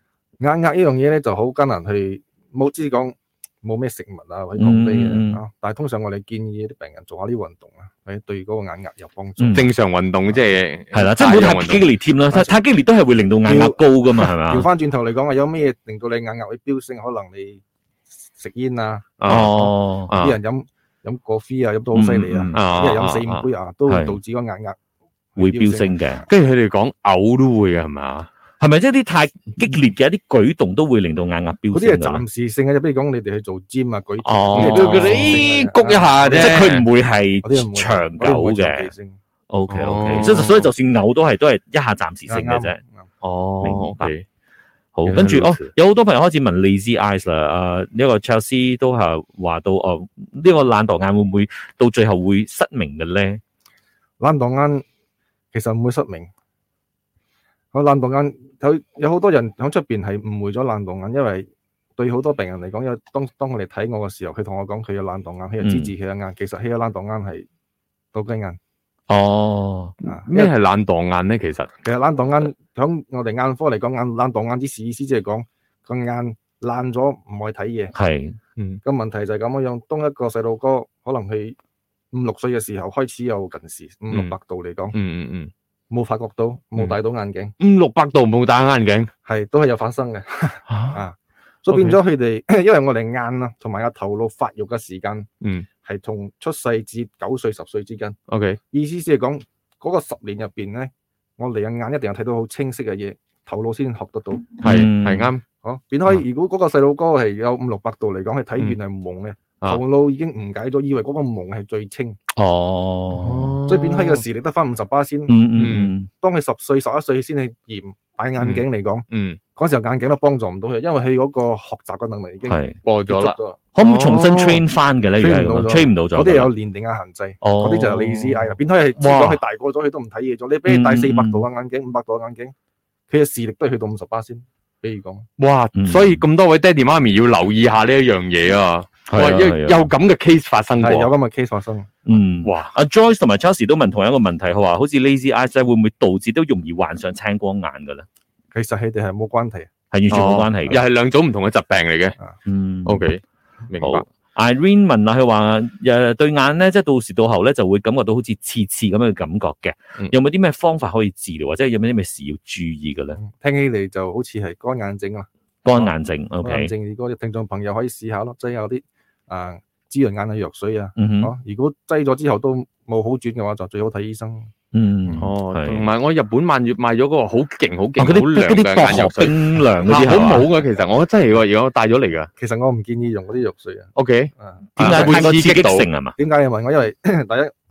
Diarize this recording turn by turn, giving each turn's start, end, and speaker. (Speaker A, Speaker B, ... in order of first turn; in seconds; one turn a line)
Speaker A: 0.4-9.7
Speaker B: 4.6-5.4
Speaker B: 9.4-9.7
Speaker C: 9.6-11.9
Speaker B: 10.9-14.7
Speaker A: 13.4-17.6
Speaker A: 18.3-19.1
Speaker C: 19.2-20.4
Speaker B: 19.3-20.1
Speaker A: 20.1-24.8
Speaker B: 21.9-22.7
Speaker C: 22.5-23.5
Speaker B: 23.9-24.2
Speaker A: 25.4-26.2
Speaker B: 25.4-26.2
Speaker C: 26.3-28.3
Speaker B: 28.6-32.2
Speaker A: 31.7-36.7
Speaker C: 34.2-36.9
Speaker B: 34.5-35.4
Speaker B: 36.3-38.9
Speaker A: 37.4-39.2
Speaker B: 39.5-42.8
Speaker C: 39.7-40.7
Speaker A: 42.3-43.1
Speaker C: 43.2-44.2
Speaker B: 43.6-44.1
Speaker B: 45.0-53.4
Speaker C: 45.1-45.7
Speaker A: 54.2-54.9
Speaker A: 55.5-56.3
Speaker A: 57.7-67.5
Speaker B: 65.6-65.9
Speaker A: 68.1-68.6
Speaker B: 69.1-70.0
Speaker C: 70.0-71.7
Speaker A: 70.0-70.5
Speaker A: 71.8-77.9
Speaker B: 77.9-78.4
Speaker A: 78.8-81.6
Speaker A: 82.1-85.0
Speaker C: 84.9-85.5
Speaker A: 85.9-87.5
Speaker C: 87.6-89.1
Speaker A: 89.3-95.3
Speaker C: 90.7-91.0
Speaker C: 91.7-92.0
Speaker A: 95.8-98.2
Speaker C: 98.3-98.6
Speaker A: 98.7-104.6
Speaker C: 104.6-105.4
Speaker B: 104.6-105.3
Speaker A: 105.6-112.2
Speaker B: 112.3-113.6
Speaker C: 113.1-114.2
Speaker A: 113.7-115.4
Speaker B: 115.3-116.1
Speaker C: 115.6-115.9
Speaker A: 116.2-123.6
Speaker C: 118.4-119.4
Speaker B: 122.5-122.8
Speaker C: 122.8-124.6
Speaker B: 123.8-126.5
Speaker A: 125.2-132.5
Speaker B: 127.4-128.0
Speaker C: 127.9-128.4
Speaker C: 129.0-129.4
Speaker B: 130.7-131.4
Speaker A: 133.1-135.3
Speaker C: 135.4-141.1
Speaker B: 135.8-136.2
Speaker B: 139.1-139.9
Speaker A: 140.8-142.1
Speaker B: 142.1-148.1
Speaker C: 142.4-142.7
Speaker A: 148.5-149.7
Speaker B: 149.9-150.8
Speaker C: 150.1-152.2
Speaker B: 152.5-153.1
Speaker C: 152.8-154.1
Speaker B: 153.8-163.2
Speaker A: 163.2-165.3
Speaker B: 165.7-166.7
Speaker A: 166.4-174.5
Speaker B: 171.0-171.3
Speaker B: 174.7-175.9
Speaker C: 175.2-182.3
Speaker B: 178.0-180.5
Speaker A: 182.4-185.3
Speaker C: 184.0-185.9
Speaker B: 184.8-186.2
Speaker A: 186.2-187.5